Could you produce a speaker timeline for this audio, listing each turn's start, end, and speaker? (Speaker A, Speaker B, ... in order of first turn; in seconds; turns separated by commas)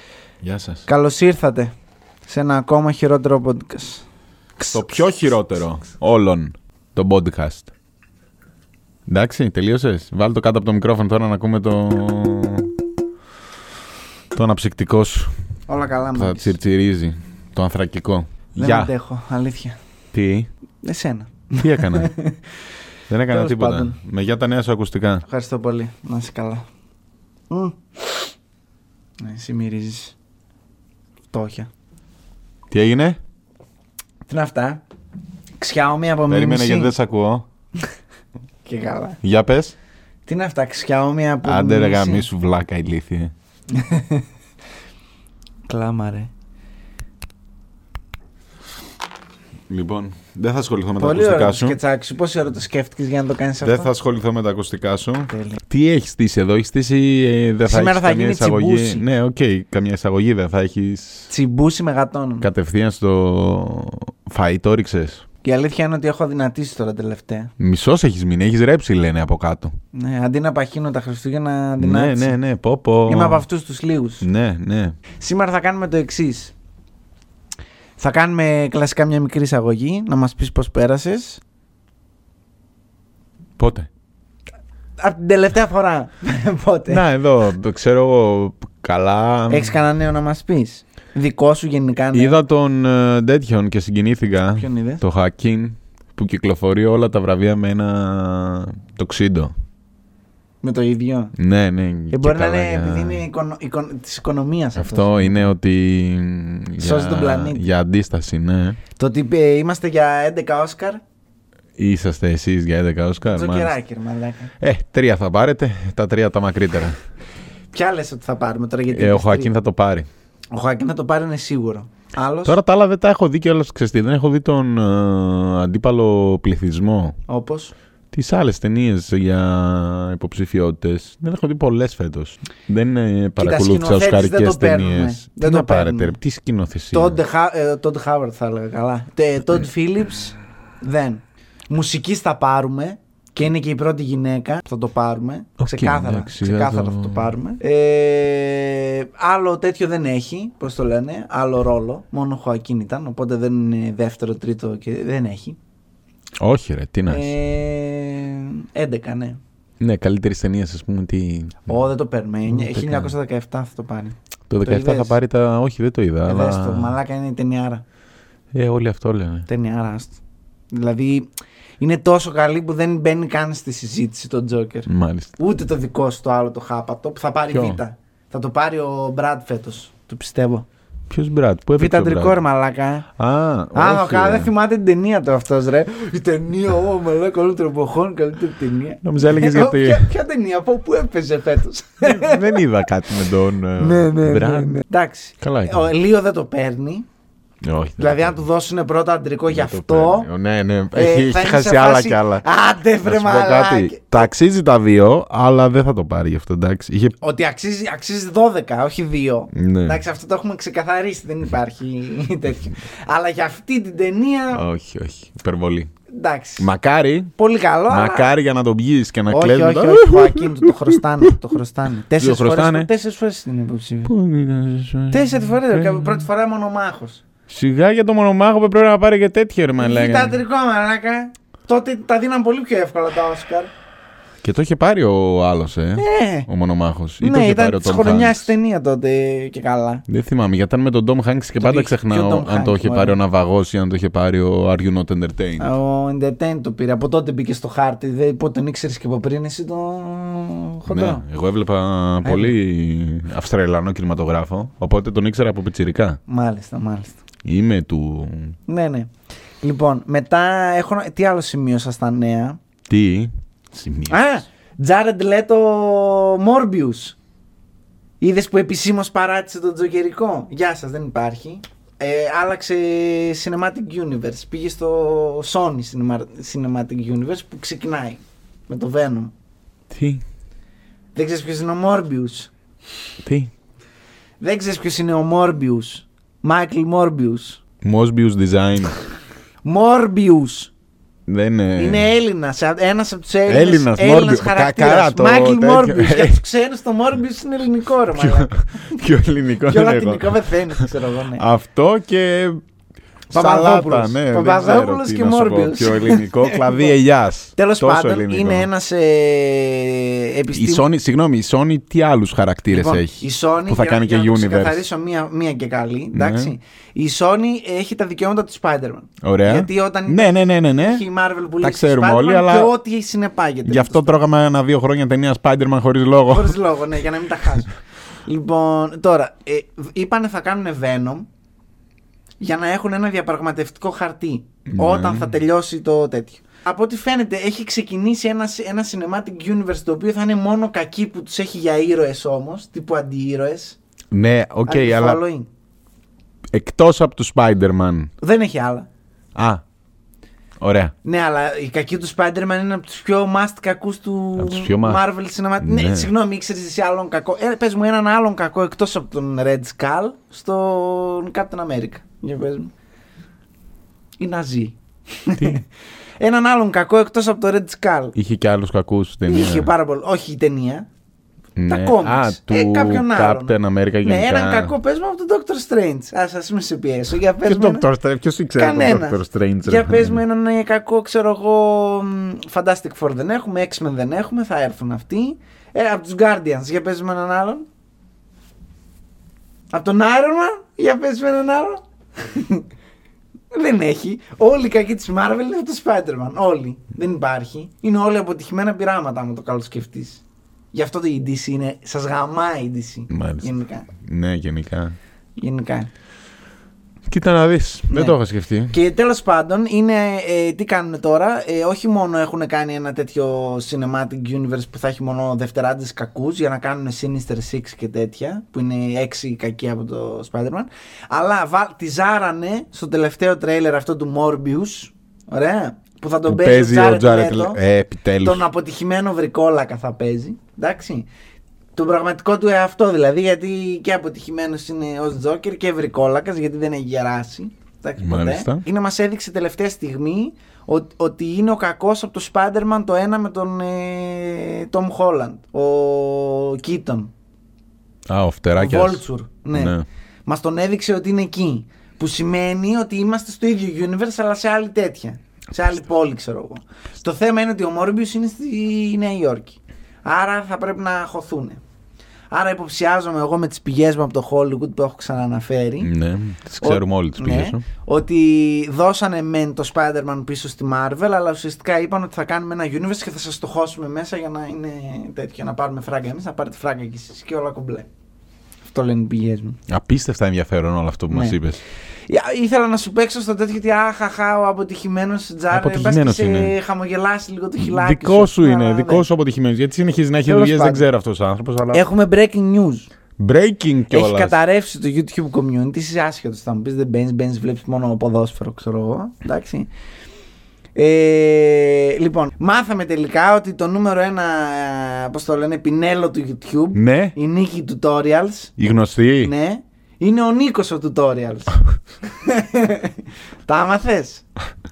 Speaker A: 0.4-0.8, Speaker B: 0.8-1.7, Speaker B: 2.3-4.0, Speaker B: 4.6-5.0, Speaker A: 4.7-7.7, Speaker A: 9.1-12.7, Speaker A: 14.3-15.3, Speaker B: 15.7-16.5, Speaker A: 16.1-18.9, Speaker B: 18.6-19.8, Speaker A: 20.1-20.5, Speaker B: 20.8-22.4, Speaker A: 21.6-22.1, Speaker A: 23.1-25.2, Speaker B: 23.3-24.0, Speaker B: 25.2-26.6, Speaker B: 27.5-28.3, Speaker B: 29.2-30.1, Speaker B: 31.3-31.7, Speaker A: 32.7-33.2, Speaker B: 34.3-34.8, Speaker B: 35.6-36.9, Speaker A: 36.3-37.4, Speaker B: 38.6-39.2, Speaker A: 39.2-39.8, Speaker B: 40.2-42.3, Speaker A: 41.4-43.3, Speaker B: 43.7-44.2, Speaker B: 45.7-46.3, Speaker A: 49.7-51.8, Speaker B: 51.0-53.9, Speaker A: 53.6-61.3, Speaker B: 55.3-55.6, Speaker B: 57.6-59.0, Speaker B: 61.3-62.5, Speaker A: 62.4-65.2, Speaker B: 65.4-67.5, Speaker A: 67.6-69.7, Speaker B: 69.9-72.3, Speaker A: 71.8-73.4, Speaker B: 73.0-74.2, Speaker A: 74.2-75.0, Speaker B: 75.2-76.5, Speaker B: 78.0-81.4, Speaker A: 83.6-83.9, Speaker B: 85.0-87.0, Speaker A: 86.9-89.8, Speaker B: 89.5-92.4, Speaker A: 92.1-99.5, Speaker B: 94.5-95.0, Speaker B: 100.6-101.3, Speaker A: 101.3-103.2, Speaker B: 102.1-105.5, Speaker A: 104.8-108.8, Speaker B: 106.8-107.6, Speaker B: 109.0-111.0, Speaker A: 111.8-113.7, Speaker B: 113.3-114.5, Speaker A: 114.6-117.0, Speaker B: 117.7-119.5, Speaker A: 118.9-120.1, Speaker B: 120.5-122.6, Speaker A: 122.5-127.2, Speaker B: 127.3-127.7, Speaker A: 128.1-137.2, Speaker B: 133.4-136.2, Speaker B: 136.9-155.6, Speaker A: 145.6-147.3, Speaker A: 156.4-157.3, Speaker B: 157.1-159.4, Speaker A: 159.8-161.8, Speaker B: 161.7-165.1, Speaker A: 162.5-163.1, Speaker A: 164.5-166.9, Speaker B: 166.2-167.8, Speaker A: 168.5-169.5, Speaker B: 169.5-170.2, Speaker B: 170.7-171.3, Speaker B: 171.8-180.7, Speaker A: 174.9-175.3, Speaker A: 177.5-177.8, Speaker A: 181.1-182.4, Speaker B: 181.8-183.1, Speaker A: 183.2-184.5, Speaker B: 183.7-192.6, Speaker A: 189.0-190.1, Speaker A: 192.0-194.8, Speaker B: 193.8-197.1, Speaker A: 195.4-195.9, Speaker A: 197.6-198.4, Speaker B: 198.0-200.3, Speaker A: 199.5-202.4, Speaker B: 200.9-204.3, Speaker A: 203.0-207.2, Speaker B: 207.2-214.6, Speaker A: 209.5-210.0, Speaker A: 214.5-215.9, Speaker B: 216.1-216.7, Speaker A: 216.6-217.3, Speaker B: 217.4-218.3, Speaker A: 217.9-221.4, Speaker B: 219.3-224.1, Speaker A: 222.1-222.9, Speaker A: 224.0-226.2, Speaker B: 225.1-227.2, Speaker A: 227.5-230.4, Speaker B: 229.8-233.7, Speaker A: 234.4-238.5, Speaker B: 236.0-236.5, Speaker B: 237.2-240.0, Speaker A: 240.1-245.7, Speaker B: 241.6-243.2, Speaker B: 245.6-251.2, Speaker A: 250.9-256.2, Speaker B: 252.2-252.5, Speaker B: 256.3-257.2, Speaker A: 257.4-258.6, Speaker B: 258.7-259.1, Speaker B: 259.6-262.6, Speaker A: 262.9-264.2, Speaker B: 264.1-267.2, Speaker B: 268.2-279.3, Speaker A: 279.9-280.2, Speaker B: 281.1-282.5, Speaker A: 283.2-283.5, Speaker B: 284.4-287.6, Speaker A: 287.8-289.0, Speaker B: 289.6-290.7, Speaker A: 291.3-292.1, Speaker B: 291.8-299.0, Speaker A: 293.5-296.4, Speaker A: 298.1-302.6, Speaker B: 299.6-301.4, Speaker A: 303.3-308.7, Speaker B: 303.3-306.9, Speaker B: 307.6-310.8, Speaker A: 310.5-314.8, Speaker B: 312.7-324.1, Speaker A: 316.1-316.5, Speaker A: 319.2-321.0, Speaker A: 321.6-322.7, Speaker A: 323.6-326.6, Speaker B: 326.3-331.3, Speaker B: 332.4-343.8, Speaker A: 334.7-335.3, Speaker A: 344.1-345.2, Speaker B: 344.6-345.5, Speaker A: 346.5-348.1, Speaker B: 348.2-348.9, Speaker A: 349.3-349.6, Speaker A: 350.6-350.9, Speaker B: 351.0-362.7, Speaker A: 354.4-355.0, Speaker A: 355.6-356.1, Speaker B: 364.2-365.6, Speaker B: 366.2-368.1, Speaker A: 368.1-369.7, Speaker B: 369.2-370.9, Speaker A: 371.6-374.7, Speaker B: 371.7-377.9, Speaker A: 377.4-380.2, Speaker B: 378.6-387.6, Speaker B: 389.7-392.6, Speaker B: 393.5-400.2, Speaker B: 400.7-403.9, Speaker A: 403.1-404.9, Speaker B: 405.4-405.9, Speaker A: 407.1-408.7, Speaker B: 407.9-408.1, Speaker B: 408.7-427.6, Speaker A: 426.2-428.4, Speaker B: 428.2-431.1, Speaker B: 431.7-447.1, Speaker A: 438.0-438.6, Speaker A: 448.1-449.9, Speaker B: 448.6-461.6, Speaker B: 462.3-465.9, Speaker A: 465.8-467.6, Speaker B: 466.6-477.9, Speaker B: 478.6-479.6, Speaker A: 479.7-481.6, Speaker B: 481.1-481.4, Speaker B: 482.1-489.0, Speaker A: 485.5-486.5, Speaker A: 487.6-491.8, Speaker B: 490.3-490.9, Speaker B: 491.7-492.9, Speaker A: 493.2-494.4, Speaker B: 493.9-499.7, Speaker B: 500.7-508.5, Speaker A: 506.7-507.1, Speaker A: 508.6-509.3, Speaker B: 509.2-514.2